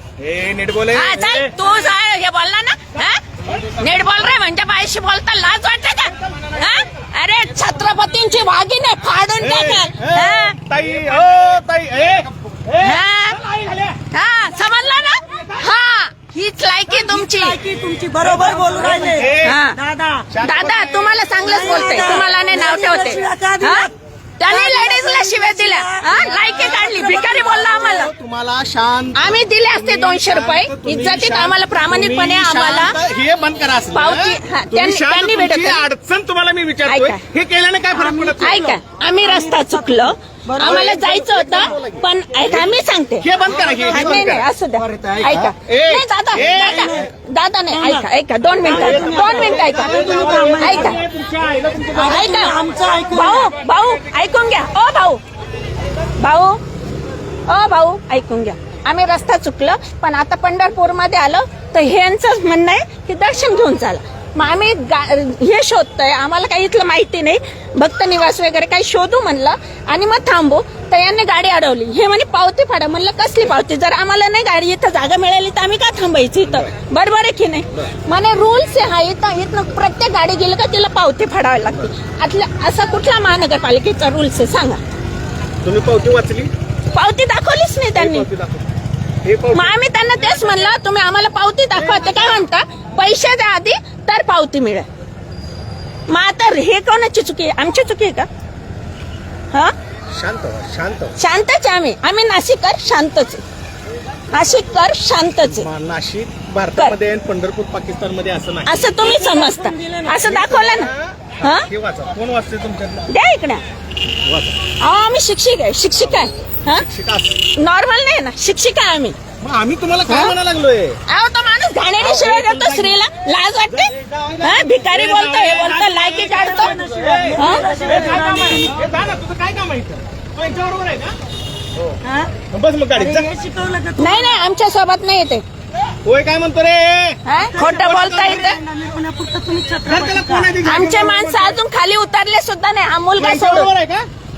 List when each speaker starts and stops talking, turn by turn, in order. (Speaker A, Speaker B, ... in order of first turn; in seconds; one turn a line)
Speaker A: 0.2-1.5
Speaker B: 0.9-3.2
Speaker B: 3.7-10.6
Speaker A: 9.4-14.0
Speaker B: 12.8-13.4
Speaker B: 14.1-17.6
Speaker A: 15.3-15.8
Speaker C: 16.9-20.3
Speaker A: 18.5-19.6
Speaker B: 19.4-19.8
Speaker A: 20.3-22.0
Speaker B: 20.4-23.9
Speaker C: 21.4-23.9
Speaker B: 24.4-28.1
Speaker C: 24.5-27.9
Speaker A: 26.5-38.6
Speaker B: 29.1-33.0
Speaker B: 33.9-35.9
Speaker B: 36.9-37.2
Speaker C: 37.9-41.7
Speaker B: 38.4-51.0
Speaker A: 40.6-47.0
Speaker C: 46.5-47.1
Speaker C: 47.7-48.0
Speaker C: 48.6-51.0
Speaker A: 48.6-52.4
Speaker C: 51.9-53.5
Speaker B: 52.0-55.2
Speaker B: 56.2-56.6
Speaker B: 57.5-84.8
Speaker A: 76.5-76.7
Speaker A: 85.6-86.5
Speaker B: 86.9-88.3
Speaker A: 87.9-88.7
Speaker A: 89.2-89.7
Speaker B: 89.5-94.9
Speaker A: 91.7-92.4
Speaker B: 96.1-98.3
Speaker A: 100.1-101.2
Speaker B: 101.2-103.4
Speaker B: 104.3-105.7
Speaker A: 105.5-108.7
Speaker B: 108.7-111.7
Speaker C: 109.0-110.5
Speaker A: 110.2-113.1
Speaker B: 113.1-113.6
Speaker A: 114.2-114.6
Speaker B: 114.8-116.8
Speaker A: 116.7-117.4
Speaker B: 117.6-119.2
Speaker A: 119.4-121.0
Speaker B: 120.1-120.4
Speaker B: 121.1-126.8
Speaker A: 122.0-123.0
Speaker A: 123.7-131.2
Speaker C: 126.2-128.9
Speaker B: 127.4-127.6
Speaker C: 132.0-132.3
Speaker A: 132.5-133.3
Speaker C: 132.9-134.4
Speaker B: 134.0-135.4
Speaker A: 136.0-137.2
Speaker B: 137.2-138.6
Speaker C: 137.4-140.5
Speaker A: 137.8-138.4
Speaker A: 139.9-141.6
Speaker B: 140.6-143.7
Speaker A: 143.2-144.1